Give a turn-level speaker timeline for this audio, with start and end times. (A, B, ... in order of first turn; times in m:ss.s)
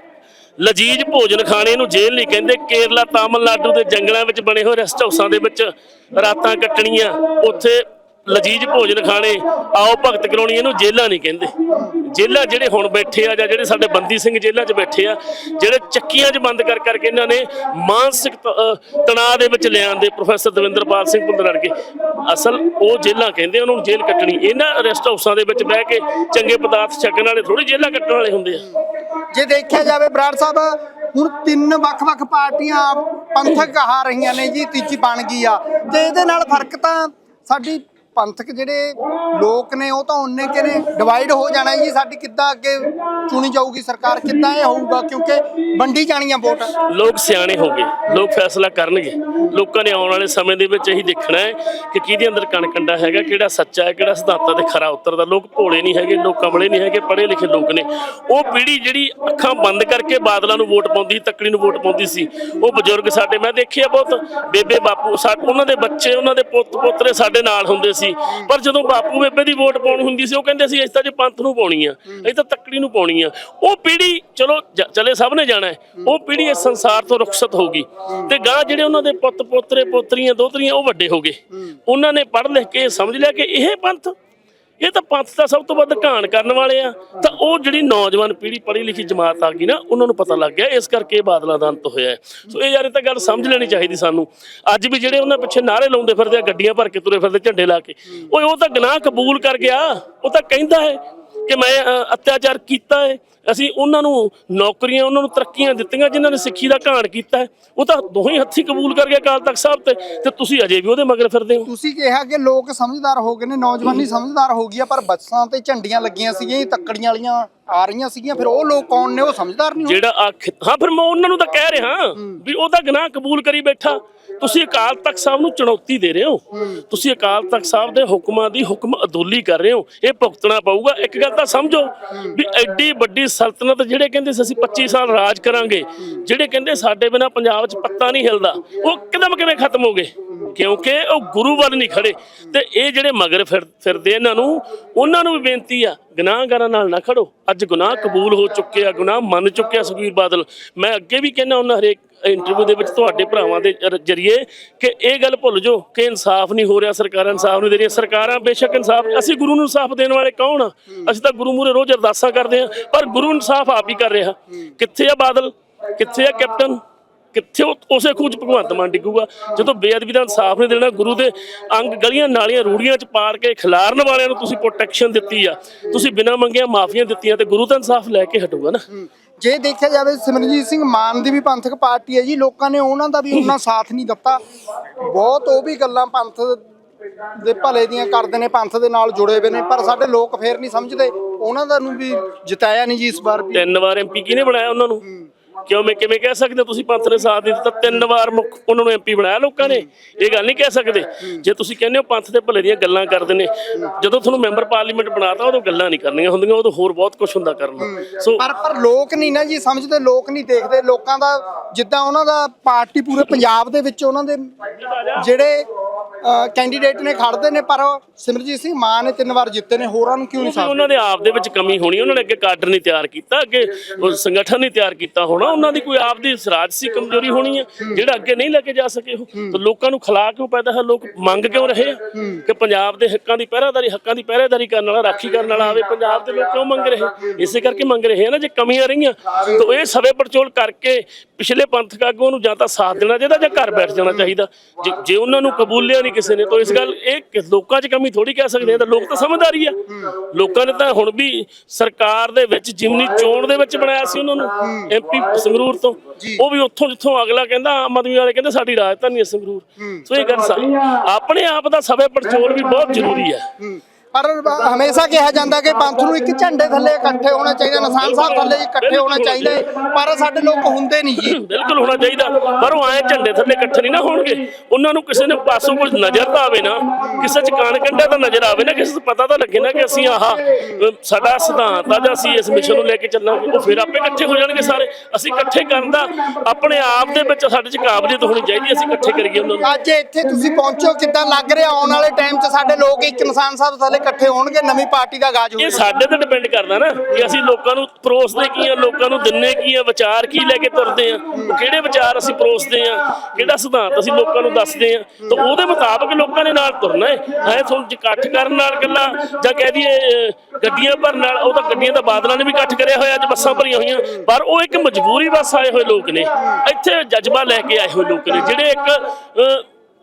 0:00.6-0:28.7 A
0:29.2-0:46.7 B
0:46.9-1:24.2 A
1:24.8-1:51.7 A
1:51.7-2:00.0 B
1:59.8-2:46.8 A
2:47.3-2:58.8 A
2:58.9-3:04.4 B
3:05.0-3:06.6 B
3:07.3-3:13.7 B
3:13.5-3:15.0 A
3:15.7-3:28.4 A
3:27.8-3:34.6 B
3:34.7-3:35.3 A
3:35.2-3:35.7 B
3:36.2-3:40.8 B
3:40.4-4:23.5 A
3:52.1-3:52.4 B
4:09.9-4:10.1 B
4:14.6-4:14.9 B
4:16.2-4:16.4 B
4:19.8-4:20.1 B
4:23.6-4:31.4 B
4:28.0-4:29.7 A
4:31.2-4:49.7 A
4:37.0-4:37.3 B
4:49.6-4:55.9 B
4:55.6-5:19.7 A
4:57.1-4:57.4 B
5:01.3-5:01.6 B
5:16.4-5:16.6 B